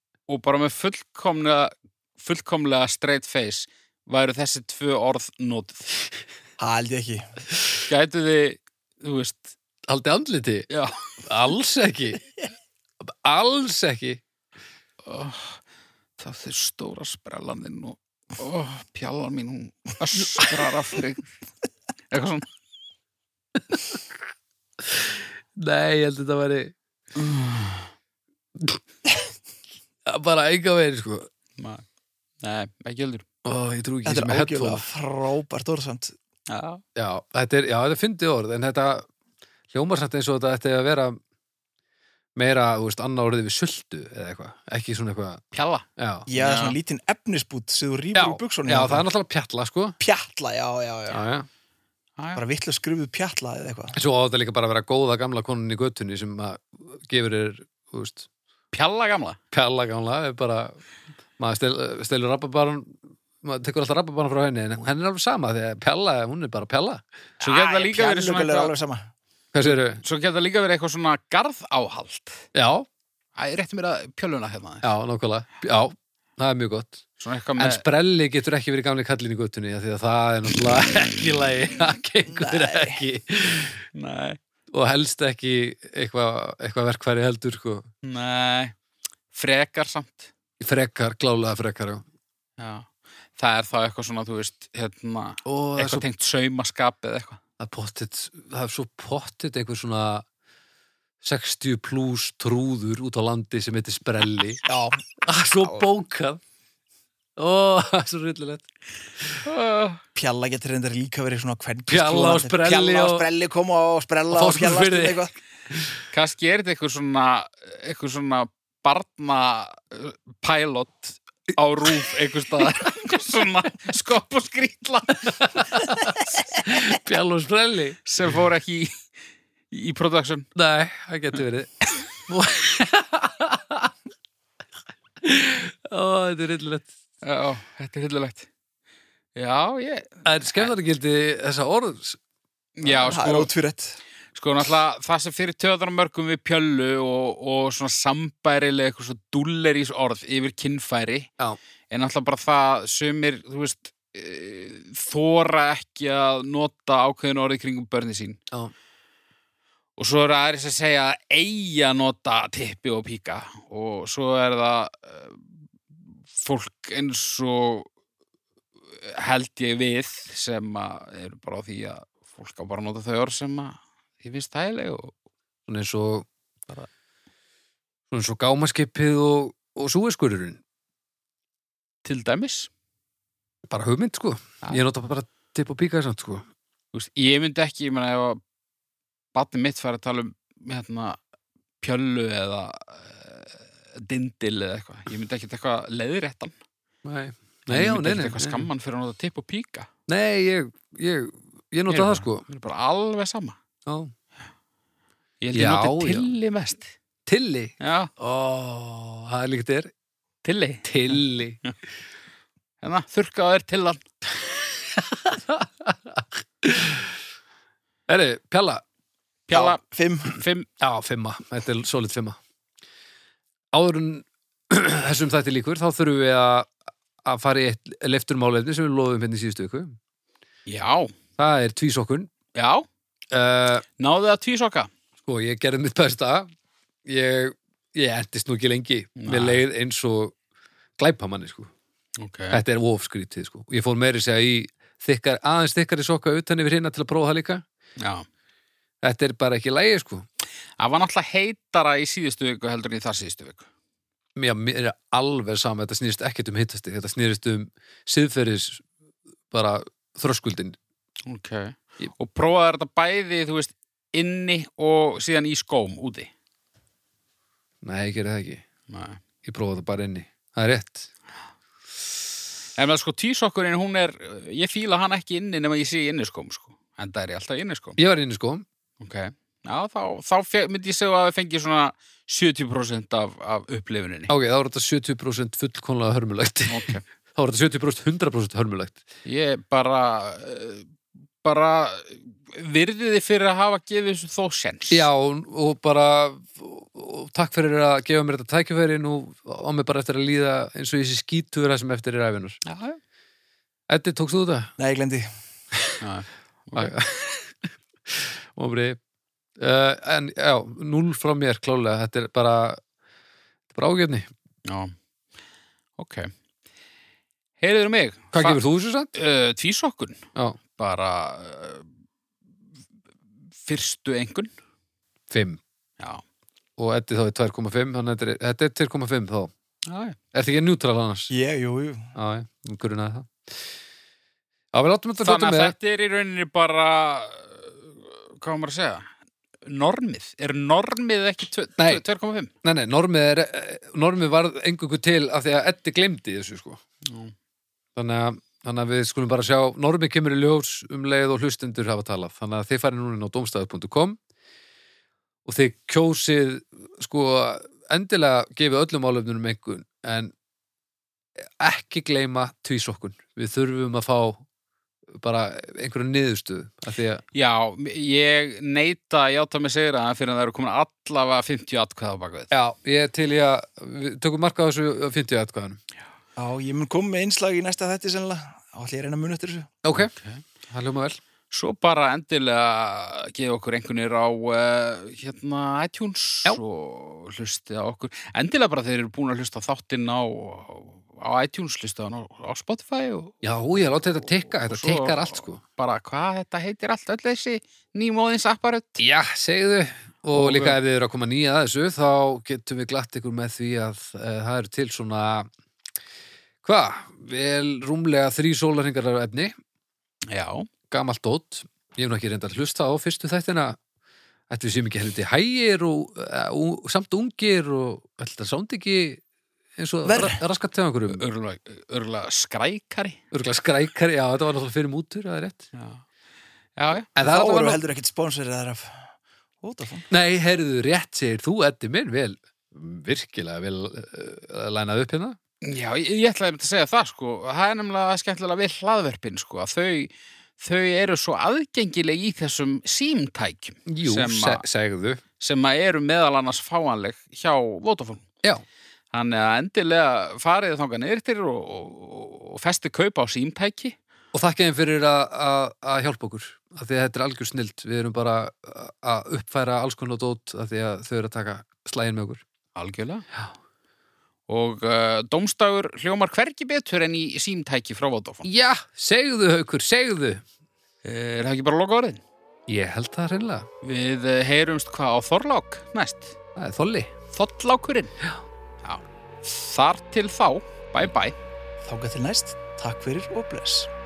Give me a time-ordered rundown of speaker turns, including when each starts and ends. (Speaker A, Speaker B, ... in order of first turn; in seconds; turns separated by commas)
Speaker A: 0.3-5.9, Speaker B: 6.6-7.2, Speaker A: 7.9-9.5, Speaker C: 9.9-10.7, Speaker C: 11.2-12.2, Speaker C: 13.0-14.2, Speaker A: 15.0-15.6, Speaker A: 16.2-21.3, Speaker C: 20.4-20.6, Speaker A: 22.1-22.5, Speaker C: 23.7-24.0, Speaker C: 24.9-26.7, Speaker C: 30.1-31.3, Speaker A: 31.6-31.8, Speaker A: 32.4-33.2, Speaker C: 33.4-34.9, Speaker B: 34.0-36.1, Speaker A: 36.5-36.8, Speaker C: 37.0-39.1, Speaker C: 39.7-41.2, Speaker C: 42.4-45.4, Speaker A: 45.5-46.8, Speaker C: 46.0-46.2, Speaker B: 46.3-49.0, Speaker C: 48.1-50.0, Speaker B: 50.0-51.2, Speaker C: 51.1-51.5, Speaker B: 52.4-54.0, Speaker C: 53.9-58.3, Speaker A: 58.7-59.4, Speaker C: 59.5-60.8, Speaker C: 61.4-67.0, Speaker A: 67.4-68.7, Speaker B: 67.4-69.1, Speaker C: 69.5-70.0, Speaker A: 69.6-72.4, Speaker C: 72.5-72.9, Speaker A: 73.3-74.9, Speaker C: 74.8-77.0, Speaker A: 77.2-77.8, Speaker C: 77.6-83.8, Speaker B: 82.3-83.0, Speaker A: 83.9-84.4, Speaker C: 84.7-87.9, Speaker A: 88.0-88.7, Speaker A: 89.3-90.3, Speaker C: 90.6-92.0, Speaker A: 92.6-97.4, Speaker C: 95.4-96.0, Speaker C: 97.6-100.2, Speaker C: 101.2-104.6, Speaker B: 104.7-105.0, Speaker C: 105.2-106.4, Speaker C: 107.4-108.6, Speaker A: 109.4-110.0, Speaker B: 110.2-115.3, Speaker C: 111.9-113.2, Speaker C: 114.3-116.0, Speaker A: 116.1-125.6, Speaker C: 125.4-128.0, Speaker A: 128.0-128.9, Speaker A: 129.7-130.4, Speaker C: 130.6-133.9, Speaker C: 135.2-136.9, Speaker A: 137.2-138.5, Speaker A: 139.3-140.7, Speaker C: 140.2-142.2, Speaker A: 142.8-143.5, Speaker B: 142.8-144.0, Speaker A: 144.3-151.3, Speaker A: 151.9-158.4, Speaker A: 160.0-165.4, Speaker A: 166.3-167.9, Speaker A: 169.0-175.1, Speaker C: 175.7-176.3, Speaker C: 178.1-180.6, Speaker A: 182.0-182.7, Speaker C: 183.7-186.4, Speaker A: 186.9-188.4, Speaker A: 189.3-191.2, Speaker A: 191.8-196.5, Speaker C: 197.0-198.7, Speaker A: 197.7-199.9, Speaker C: 200.1-202.4, Speaker A: 201.9-203.6, Speaker C: 203.8-204.1, Speaker A: 205.4-206.9, Speaker C: 205.5-206.3, Speaker C: 207.2-209.9, Speaker A: 207.8-208.1, Speaker A: 210.4-211.7, Speaker C: 210.8-211.6, Speaker A: 212.8-214.0, Speaker C: 214.9-217.1, Speaker C: 218.1-218.8, Speaker A: 219.5-220.7, Speaker B: 219.5-220.3, Speaker C: 220.8-222.4, Speaker C: 223.7-229.9, Speaker A: 230.7-231.1, Speaker C: 231.4-232.3, Speaker A: 232.5-232.8, Speaker C: 233.3-233.8, Speaker A: 234.0-234.9, Speaker C: 235.2-236.5, Speaker C: 237.0-240.3, Speaker A: 239.2-239.6, Speaker C: 241.0-241.7, Speaker A: 242.2-242.6, Speaker C: 242.5-247.6, Speaker A: 248.0-248.2, Speaker C: 249.0-250.2, Speaker A: 250.8-253.7, Speaker C: 254.3-258.9, Speaker C: 259.5-260.8, Speaker A: 261.3-266.3, Speaker C: 267.8-268.6, Speaker A: 268.9-269.2, Speaker C: 269.4-271.1, Speaker A: 272.8-278.0, Speaker C: 278.0-278.6, Speaker A: 279.0-284.3, Speaker C: 284.3-289.0, Speaker A: 286.7-287.0, Speaker A: 289.2-290.9, Speaker A: 291.4-295.1, Speaker C: 294.9-302.6, Speaker A: 302.6-303.0, Speaker C: 303.9-304.7, Speaker B: 304.8-305.3, Speaker A: 306.0-306.9, Speaker C: 306.7-309.0, Speaker C: 309.6-312.8, Speaker C: 313.7-314.3, Speaker A: 314.6-314.9, Speaker A: 316.0-316.3, Speaker A: 317.6-318.6, Speaker C: 318.3-319.1, Speaker A: 319.1-321.9, Speaker A: 323.6-324.5, Speaker C: 325.3-325.6, Speaker C: 326.8-329.5, Speaker A: 329.9-330.2, Speaker C: 330.3-331.3, Speaker B: 331.3-332.1, Speaker C: 332.1-333.6, Speaker C: 334.7-335.7, Speaker A: 335.2-339.1, Speaker A: 339.6-342.5, Speaker C: 341.8-342.0, Speaker C: 342.6-346.8, Speaker A: 347.0-347.3, Speaker C: 347.9-354.2, Speaker C: 355.4-360.3, Speaker C: 361.4-364.4, Speaker C: 365.1-367.2, Speaker A: 367.3-372.5, Speaker C: 372.5-375.8, Speaker B: 376.4-379.7, Speaker C: 379.8-380.1, Speaker A: 379.9-380.4, Speaker C: 380.7-381.2, Speaker A: 381.5-393.4, Speaker C: 393.4-395.6, Speaker A: 394.5-399.0, Speaker C: 399.0-405.5, Speaker A: 400.3-400.8, Speaker C: 406.6-409.5, Speaker A: 410.3-410.7, Speaker C: 410.9-413.8, Speaker C: 414.5-419.2, Speaker C: 419.8-421.2, Speaker B: 420.0-420.4, Speaker A: 421.1-423.2, Speaker C: 423.3-425.7, Speaker A: 425.7-426.0, Speaker A: 426.8-427.1, Speaker C: 427.1-427.8, Speaker B: 427.2-429.1, Speaker B: 429.6-430.1, Speaker C: 430.1-435.4, Speaker A: 435.6-444.6, Speaker C: 443.9-445.2, Speaker A: 445.4-448.3, Speaker A: 449.1-453.9, Speaker C: 454.3-462.4, Speaker A: 462.8-463.2, Speaker A: 464.5-468.5, Speaker C: 468.4-470.4, Speaker A: 471.0-472.2, Speaker C: 472.7-473.7, Speaker A: 473.8-476.4, Speaker C: 476.6-477.1, Speaker A: 477.3-478.1, Speaker A: 478.8-481.4, Speaker B: 481.8-483.9